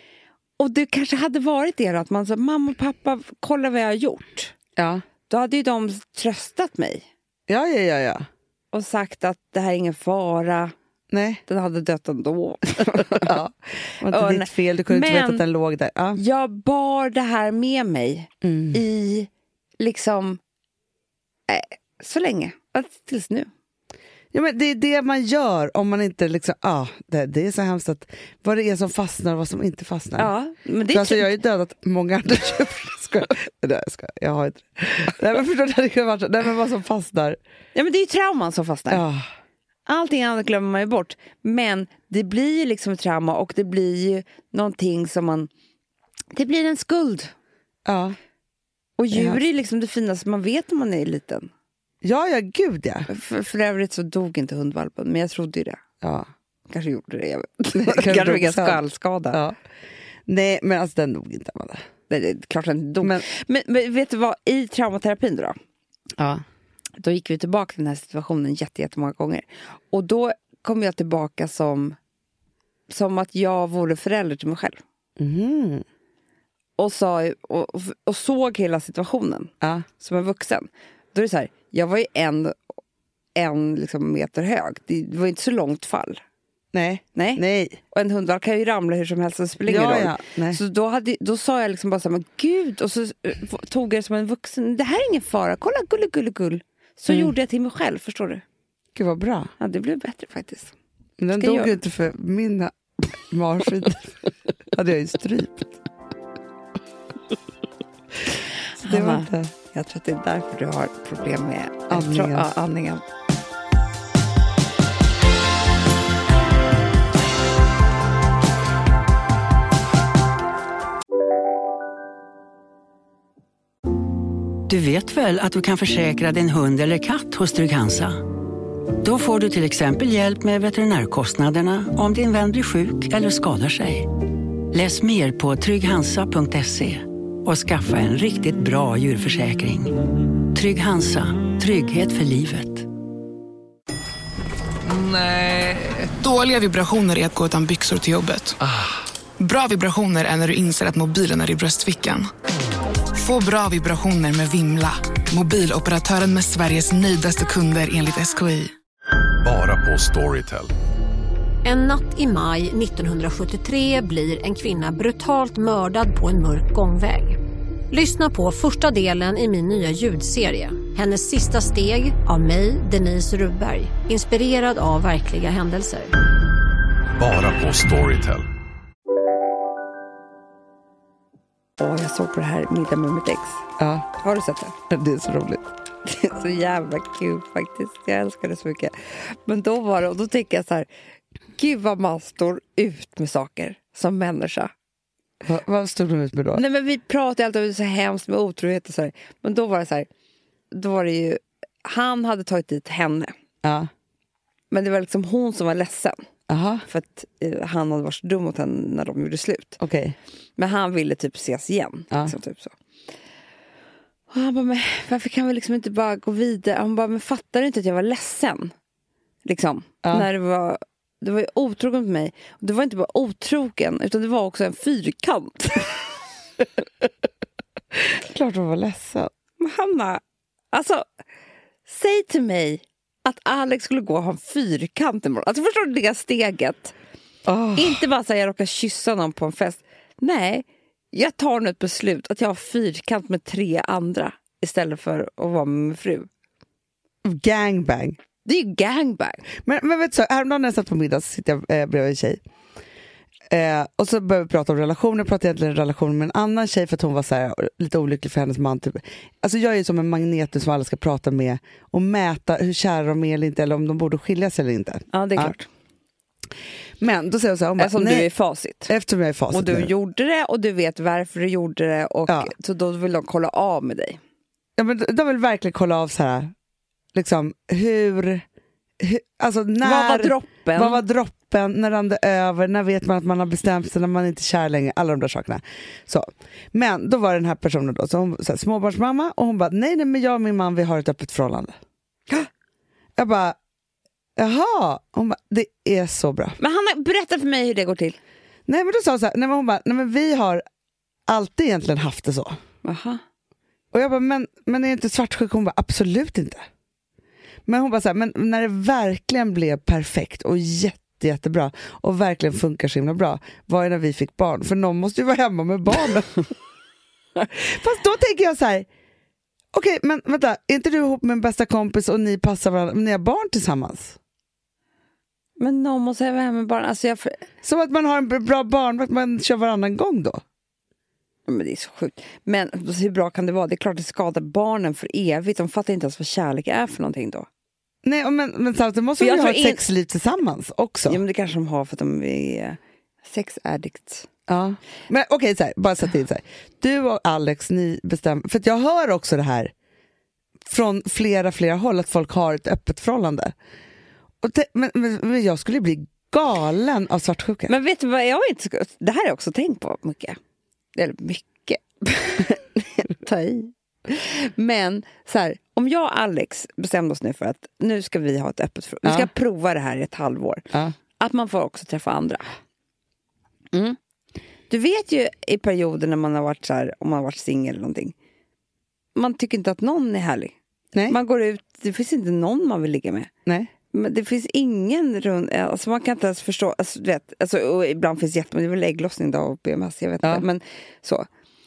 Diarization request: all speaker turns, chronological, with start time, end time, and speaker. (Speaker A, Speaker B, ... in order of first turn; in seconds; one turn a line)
Speaker A: 0.6-4.5
Speaker B: 4.8-5.0
Speaker A: 5.3-7.0
Speaker B: 7.5-8.3
Speaker A: 8.7-10.7
Speaker B: 11.1-11.4
Speaker A: 11.5-13.3
Speaker B: 12.9-16.2
Speaker A: 14.1-15.4
Speaker A: 16.1-19.3
Speaker B: 18.4-18.8
Speaker A: 19.8-20.4
Speaker A: 21.5-23.5
Speaker B: 24.3-30.3
Speaker A: 30.2-31.3
Speaker B: 30.9-37.4
Speaker A: 37.7-39.0
Speaker B: 38.9-39.2
Speaker A: 39.9-45.5
Speaker A: 46.3-47.3
Speaker B: 47.9-48.1
Speaker A: 49.0-51.5
Speaker B: 49.1-49.4
Speaker B: 52.0-53.1
Speaker A: 53.1-55.8
Speaker B: 56.0-56.3
Speaker A: 56.7-59.4
Speaker B: 57.7-58.8
Speaker B: 60.3-61.8
Speaker A: 62.1-65.5
Speaker B: 66.2-66.4
Speaker A: 67.0-72.0
Speaker A: 72.9-74.8
Speaker B: 75.2-75.8
Speaker A: 76.8-82.6
Speaker A: 83.3-86.2
Speaker B: 86.7-87.8
Speaker A: 87.2-98.4
Speaker B: 89.7-90.6
Speaker B: 98.9-99.5
Speaker A: 99.6-100.7
Speaker B: 101.2-102.7
Speaker A: 101.3-101.8
Speaker B: 103.3-104.1
Speaker B: 104.7-105.7
Speaker A: 108.8-113.0
Speaker B: 108.8-109.5
Speaker B: 111.9-112.5
Speaker C: 124.7-128.2
Speaker C: 129.0-134.1
Speaker C: 134.7-140.0
Speaker C: 140.5-142.9
Speaker D: 144.8-148.8
Speaker D: 149.4-152.3
Speaker D: 153.1-158.7
Speaker E: 159.4-160.7
Speaker F: 161.6-167.4
Speaker F: 167.9-176.1
Speaker E: 177.2-178.5
Speaker A: 181.8-183.7
Speaker B: 183.8-184.1
Speaker A: 184.2-184.7
Speaker B: 184.9-185.7
Speaker A: 186.0-190.9
Speaker A: 191.6-194.7
Speaker B: 195.4-196.6
Speaker A: 196.5-200.1
Speaker A: 200.7-203.3
Speaker B: 203.6-203.9
Speaker A: 204.7-206.2
Speaker B: 206.5-206.8
Speaker A: 206.9-209.8
Speaker B: 209.8-210.2
Speaker A: 210.6-212.7
Speaker A: 214.3-218.7
Speaker A: 219.4-226.0
Speaker B: 227.9-229.3
Speaker A: 229.6-230.2
Speaker A: 230.7-231.0
Speaker A: 231.9-236.9
Speaker B: 237.4-238.0
Speaker A: 237.8-246.3
Speaker B: 247.2-248.2
Speaker A: 248.4-249.4
Speaker B: 249.6-252.4
Speaker B: 253.5-265.5
Speaker A: 265.1-265.6
Speaker B: 267.0-268.3
Speaker A: 267.8-268.9
Speaker B: 268.9-269.9
Speaker A: 269.5-274.2
Speaker B: 274.8-276.5
Speaker B: 277.1-278.4
Speaker B: 279.0-291.8
Speaker A: 279.8-281.0
Speaker B: 293.2-293.6
Speaker B: 294.4-296.6
Speaker A: 296.6-298.2
Speaker B: 298.7-300.6
Speaker B: 301.3-302.6
Speaker A: 302.8-303.2
Speaker B: 303.9-306.6
Speaker B: 307.6-316.4
Speaker B: 317.5-318.9
Speaker B: 319.7-324.2
Speaker A: 325.6-327.4
Speaker B: 327.6-330.4
Speaker A: 331.5-337.5
Speaker B: 338.0-341.2
Speaker A: 339.2-339.8
Speaker A: 341.1-344.3
Speaker B: 344.5-349.7
Speaker B: 350.6-353.5
Speaker B: 354.4-357.7
Speaker A: 357.7-360.4
Speaker A: 360.9-370.7
Speaker A: 371.2-372.5
Speaker A: 373.7-374.0
Speaker A: 374.7-378.1
Speaker A: 379.1-380.5
Speaker A: 381.1-383.3
Speaker A: 383.9-391.2